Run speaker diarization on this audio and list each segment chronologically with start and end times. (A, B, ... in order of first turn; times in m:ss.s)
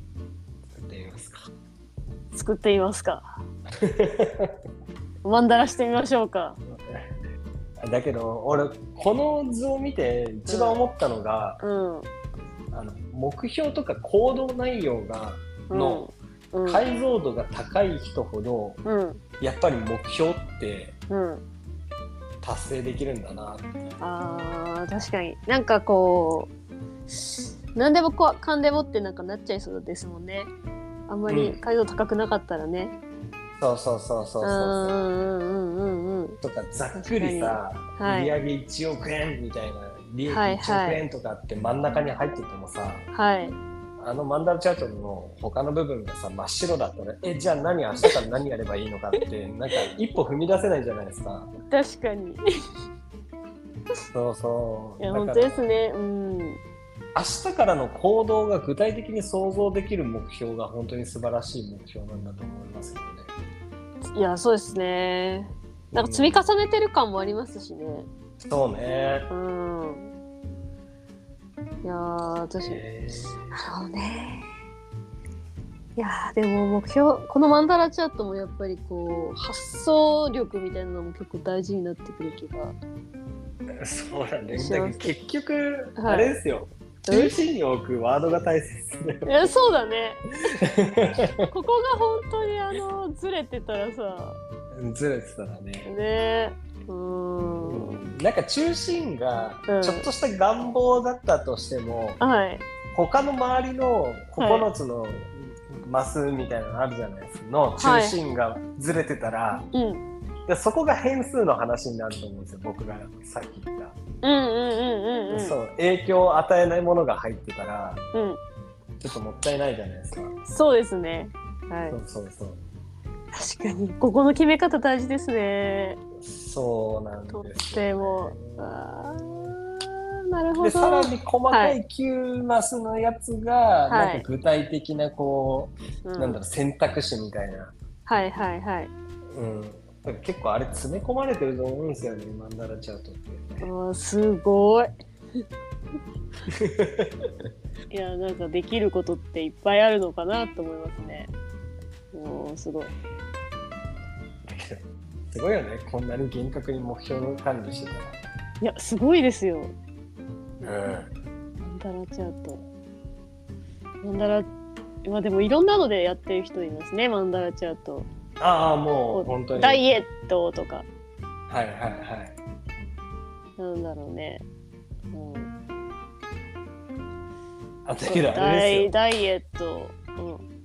0:00.7-0:01.5 A
0:02.3-0:03.4 B
0:03.8-0:04.6 A
0:05.2-0:06.6 B
0:06.6-0:07.1 A
0:07.8-0:11.6 A
0:10.5-0:10.8 B
0:11.6-0:12.1 B
0:12.7-0:16.1 A
0:15.7-0:16.8 B
0:16.6-0:18.8 A
0:18.8-0:19.2 B
0:19.4-0:21.0 A
0:21.1-0:21.4 B
0:22.4-0:24.0 A
0:24.0-0:26.5 B
0:27.1-0:30.5 B
0:31.1-0:32.9 B
0:31.3-0:31.6 A
0:33.6-0:35.0 A
0:34.4-0:36.4 B
0:36.4-0:43.1 A
0:37.0-0:38.4 B
0:40.3-0:41.0 B
0:43.1-0:43.6 B
0:44.0-0:51.5 A
0:51.7-0:52.4 B
0:54.1-0:55.7 A
0:55.0-0:56.6 B
0:57.1-1:03.3 A
1:04.1-1:08.1 B
1:05.9-1:06.5 A
1:08.4-1:09.3 A
1:09.3-1:10.1 B
1:11.8-1:12.8 B
1:12.6-1:13.6 A
1:13.5-1:14.5 B
1:16.0-1:22.8 B
1:23.8-1:29.5 A
1:24.5-1:25.1 B
1:26.0-1:26.3 B
1:27.0-1:27.3 B
1:29.2-1:30.2 B
1:30.6-1:31.3 A
1:31.5-1:34.4 B
1:34.7-1:35.9 A
1:35.8-1:38.0 B
1:37.6-1:42.2 A
1:39.7-1:40.1 B
1:42.2-1:42.6 B
1:42.9-1:49.7 A
1:44.4-1:44.7 B
1:47.8-1:48.2 B
1:49.7-1:50.0 B
1:50.5-1:54.0 A
1:54.2-1:55.6 B
1:55.3-1:58.0 A
1:58.1-1:58.4 B
1:59.0-2:00.4 A
2:00.5-2:02.0 B
2:01.9-2:02.6 A
2:03.3-2:06.0 B
2:06.2-2:08.8 A
2:07.3-2:11.8 B
2:10.6-2:17.7 A
2:13.9-2:14.3 B
2:16.0-2:16.4 B
2:18.0-2:18.9 B
2:19.3-2:23.7 A
2:23.6-2:24.9 B
2:26.6-2:27.1 A
2:27.9-2:31.3 B
2:32.1-2:32.9 B
2:34.5-2:38.2 A
2:38.6-2:39.7 B
2:40.6-2:41.1 A
2:41.6-2:42.6 B
2:44.0-2:44.5 B
2:45.0-2:48.1 B
2:48.4-2:49.8 A
2:49.1-2:50.8 B
2:51.5-2:52.4 A
2:53.6-2:54.4 B
2:55.1-2:55.5 B
2:57.8-2:58.9 A
2:58.0-3:00.4 B